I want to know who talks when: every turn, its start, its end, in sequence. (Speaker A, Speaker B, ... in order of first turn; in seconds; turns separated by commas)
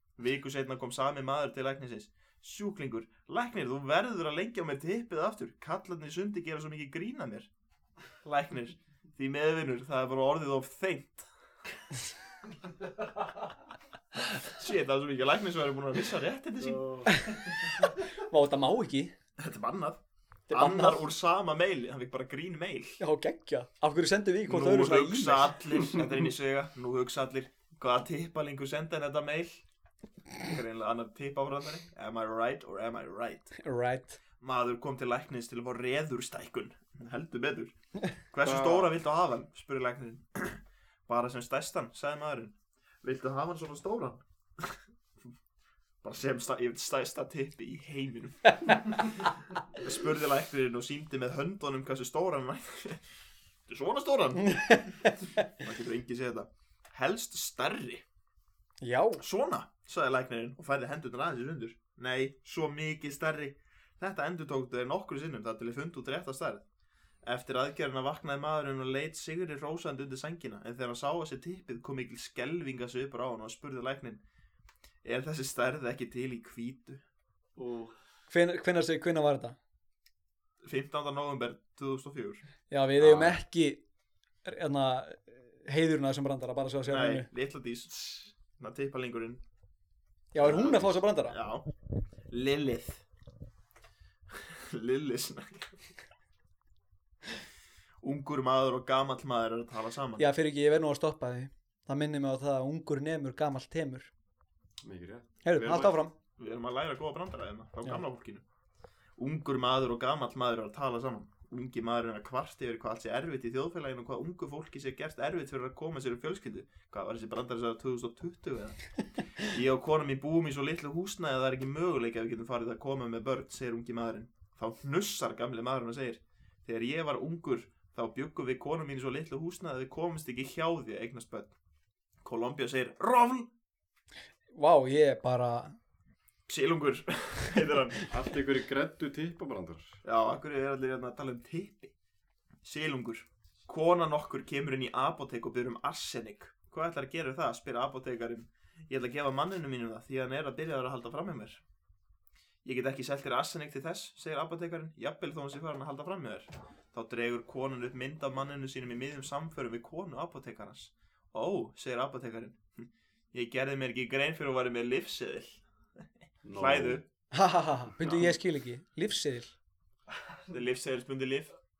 Speaker A: 0.2-7.5, Speaker A: 8.2-11.3, Speaker A: 14.4-17.1, Speaker B: 16.6-17.1, Speaker C: 17.1-19.1, Speaker A: 19.4-20.0, Speaker C: 20.5-21.0, Speaker A: 20.5-23.0, Speaker C: 23.0-25.5, Speaker A: 24.5-29.6, Speaker A: 30.4-33.5, Speaker C: 33.6-34.2, Speaker A: 34.4-37.7, Speaker A: 38.3-44.8, Speaker B: 38.4-38.9, Speaker A: 46.0-53.0, Speaker A: 53.7-54.8, Speaker C: 54.4-55.0, Speaker A: 55.4-58.0, Speaker C: 58.8-59.2, Speaker A: 59.2-66.7, Speaker A: 67.2-74.2, Speaker A: 75.0-77.0, Speaker B: 77.6-78.0, Speaker C: 78.3-79.6, Speaker A: 80.6-82.5, Speaker C: 82.7-83.8, Speaker B: 83.0-83.4, Speaker C: 84.5-87.3, Speaker A: 86.9-89.4, Speaker C: 90.3-91.3, Speaker A: 90.4-91.7, Speaker A: 92.3-93.0, Speaker A: 94.3-95.9, Speaker A: 98.0-100.3, Speaker C: 100.2-104.1, Speaker B: 104.8-105.8, Speaker C: 105.4-106.1, Speaker A: 105.6-108.4, Speaker A: 109.2-131.6, Speaker A: 132.2-133.5, Speaker C: 134.5-135.8, Speaker A: 136.5-138.1, Speaker B: 138.1-140.0, Speaker A: 140.0-141.9, Speaker A: 142.6-151.6, Speaker A: 152.6-167.1, Speaker B: 166.4-167.0, Speaker C: 167.3-169.6, Speaker A: 170.4-171.5